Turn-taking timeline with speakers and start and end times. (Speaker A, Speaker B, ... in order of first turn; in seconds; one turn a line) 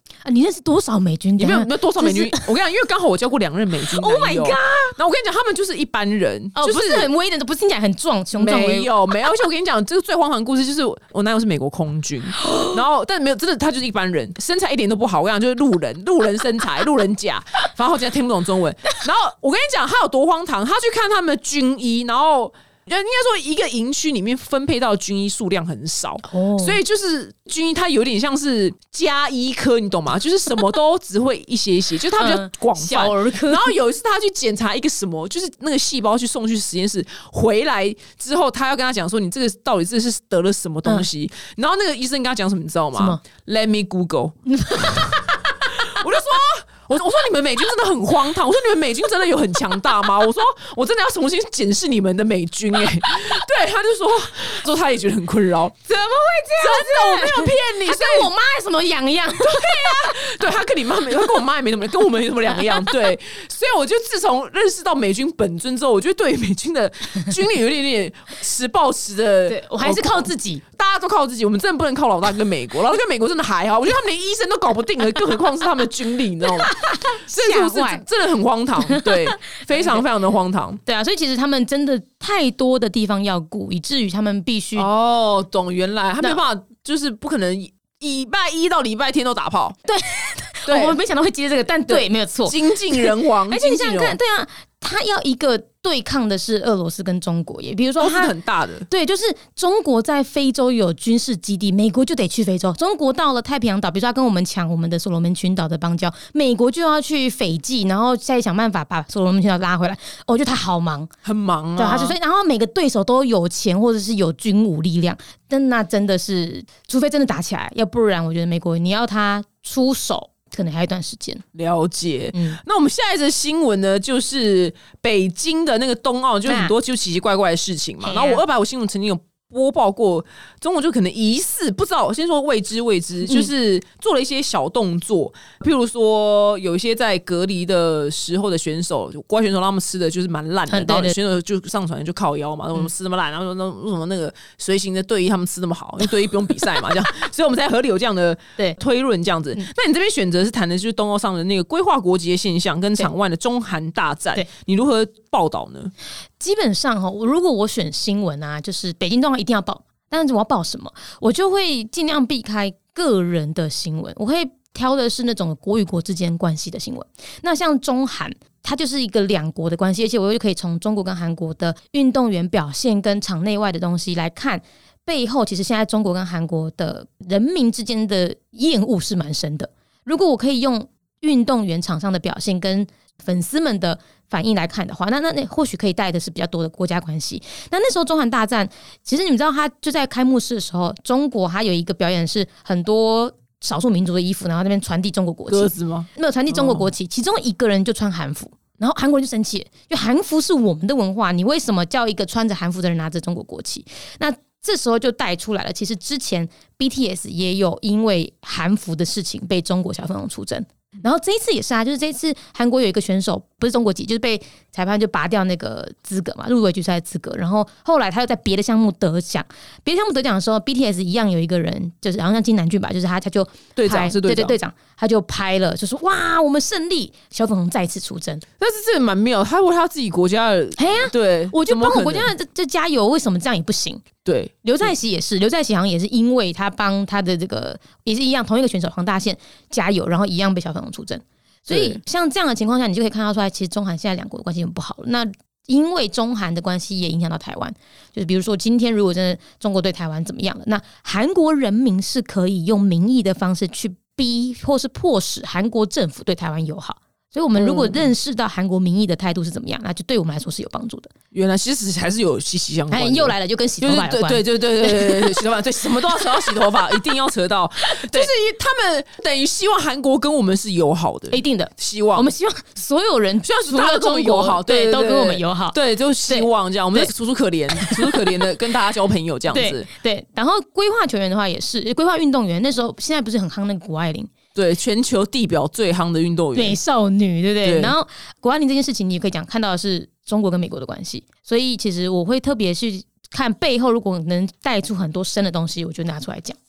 Speaker A: 0.2-2.4
Speaker B: 1.4-7.1
Speaker A: 3.9-5.0
Speaker A: 6.5-8.9
Speaker B: 8.3-55.8
Speaker A: 12.4-12.8
Speaker A: 26.3-26.8
Speaker A: 32.2-33.7
Speaker A: 44.5-46.0
Speaker A: 55.9-60.1
Speaker B: 56.6-58.3
Speaker B: 59.4-80.8
Speaker A: 62.5-62.9
Speaker A: 69.5-70.6
Speaker A: 76.6-78.0
Speaker A: 78.9-80.0
Speaker A: 80.8-84.9
Speaker B: 84.8-89.8
Speaker A: 89.9-98.3
Speaker B: 90.7-91.0
Speaker B: 91.9-94.2
Speaker B: 98.0-98.9
Speaker A: 98.9-111.1
Speaker B: 111.2-112.2
Speaker A: 111.8-121.4
Speaker B: 121.5-155.9
Speaker A: 122.3-122.6
Speaker A: 126.4-126.7
Speaker A: 128.0-128.4
Speaker A: 140.7-141.1
Speaker A: 156.4-228.4
Speaker B: 195.5-196.9
Speaker B: 223.7-224.6
Speaker B: 228.6-232.3
Speaker A: 230.8-234.0
Speaker B: 234.2-234.5
Speaker A: 234.6-261.1
Speaker B: 241.7-242.0
Speaker B: 257.5-258.1
Speaker B: 261.3-272.3
Speaker A: 262.9-266.6
Speaker A: 267.9-268.3
Speaker A: 271.3-275.8
Speaker B: 273.4-279.9
Speaker A: 276.3-277.1
Speaker A: 277.8-278.4
Speaker A: 279.5-284.3
Speaker B: 284.5-286.8
Speaker A: 286.5-296.6
Speaker B: 287.6-287.9